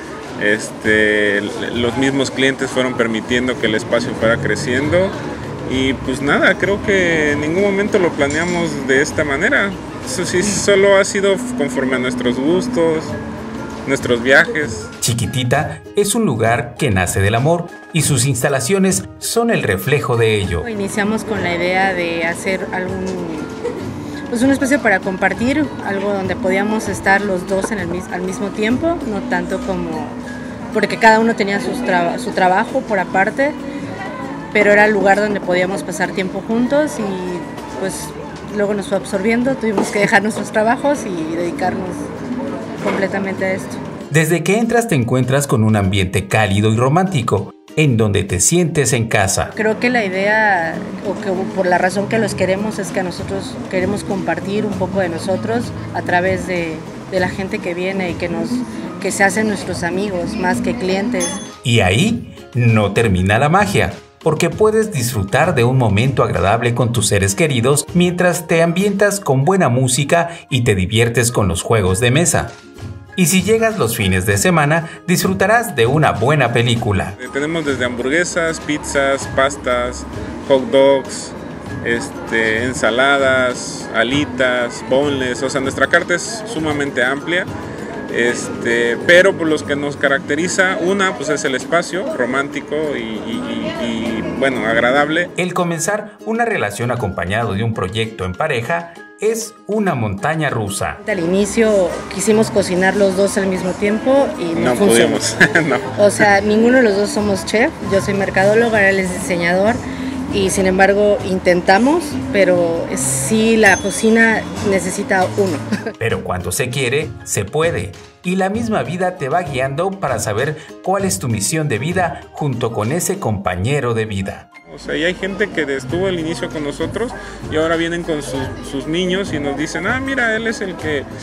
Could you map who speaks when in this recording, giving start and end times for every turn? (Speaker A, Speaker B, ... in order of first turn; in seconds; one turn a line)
Speaker A: 0.4-13.1
Speaker A: 13.8-14.9
Speaker B: 15.0-20.7
Speaker C: 20.6-23.5
Speaker C: 24.3-30.2
Speaker C: 30.7-33.6
Speaker C: 34.5-42.1
Speaker C: 42.8-43.8
Speaker B: 44.1-49.5
Speaker C: 49.5-61.4
Speaker B: 61.6-72.6
Speaker B: 73.2-77.2
Speaker A: 77.2-87.5
Speaker A: 88.1-95.3
Speaker B: 95.4-101.0
Speaker C: 101.0-105.2
Speaker A: 104.5-105.9
Speaker C: 106.0-115.7
Speaker B: 116.0-124.5
Speaker A: 124.7-131.1